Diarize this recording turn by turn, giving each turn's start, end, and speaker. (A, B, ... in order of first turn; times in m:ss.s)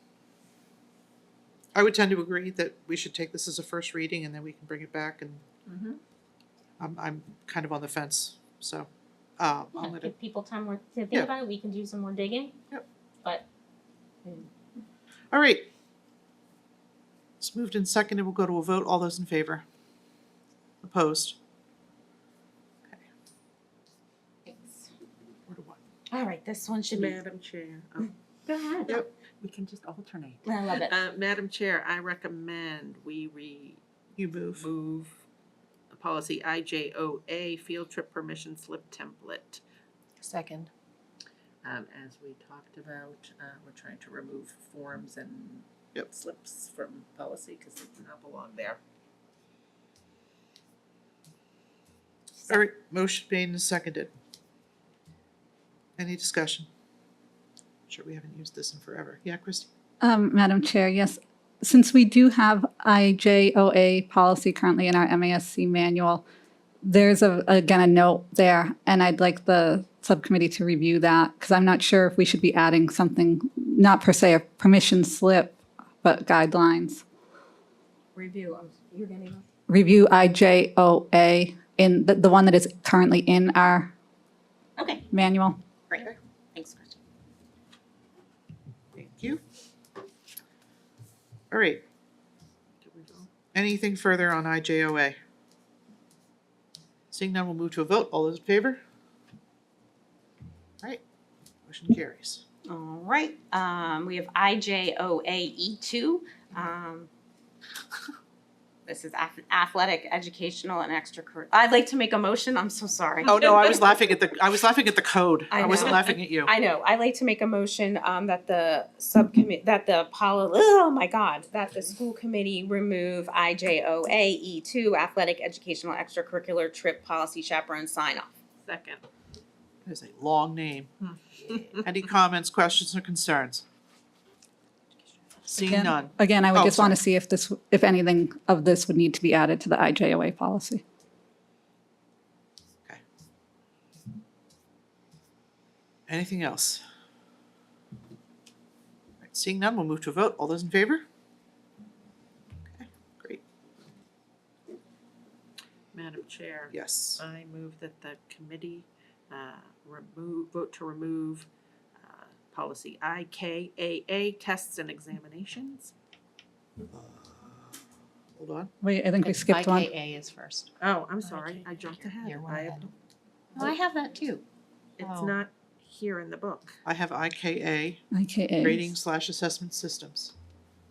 0:01.7-0:05.4 A
0:05.7-0:06.0 B
0:06.8-0:10.1 A
0:09.8-0:12.6 C
0:15.3-0:15.7 A
0:17.4-0:19.6 A
0:20.8-0:21.4 A
0:24.5-0:24.9 C
0:25.5-0:25.8 A
0:26.1-0:27.2 C
0:26.9-0:28.1 B
0:28.5-0:29.0 C
0:28.8-0:33.8 B
0:30.4-0:31.0 C
0:34.2-0:34.7 A
0:34.6-0:35.2 B
0:35.9-0:39.6 B
0:40.2-0:40.7 D
0:41.6-0:48.8 B
0:52.5-0:54.1 A
0:56.0-0:56.7 A
0:57.9-0:59.7 A
1:00.0-1:06.2 E
1:06.8-1:17.0 E
1:18.2-1:19.5 C
1:19.7-1:23.9 E
1:24.8-1:25.1 C
1:25.1-1:25.6 E
1:25.9-1:27.0 C
1:28.9-1:29.4 A
1:31.5-1:31.8 A
1:32.8-1:33.3 B
1:33.5-1:35.2 A
1:37.1-1:38.8 A
1:41.7-1:42.4 A
1:42.7-1:47.1 C
1:48.9-1:53.6 C
1:53.3-1:56.5 A
1:55.5-2:08.3 C
2:08.6-2:09.0 B
2:09.8-2:10.9 A
2:11.1-2:11.8 B
2:11.8-2:13.6 A
2:15.4-2:17.0 A
2:15.6-2:20.8 E
2:26.1-2:26.8 A
2:29.2-2:31.0 A
2:32.7-2:33.4 A
2:35.9-2:45.9 B
2:36.7-2:37.2 A
2:46.9-2:47.7 A
2:48.4-2:48.7 A
2:48.8-2:49.9 E
2:49.2-2:50.7 D
2:50.8-2:52.9 B
2:51.3-2:51.6 D
2:52.2-2:52.9 D
2:53.6-2:54.4 D
2:55.0-2:56.8 B
2:55.0-2:55.4 D
2:56.8-2:58.0 A
2:58.1-2:59.0 E
2:58.6-3:00.3 A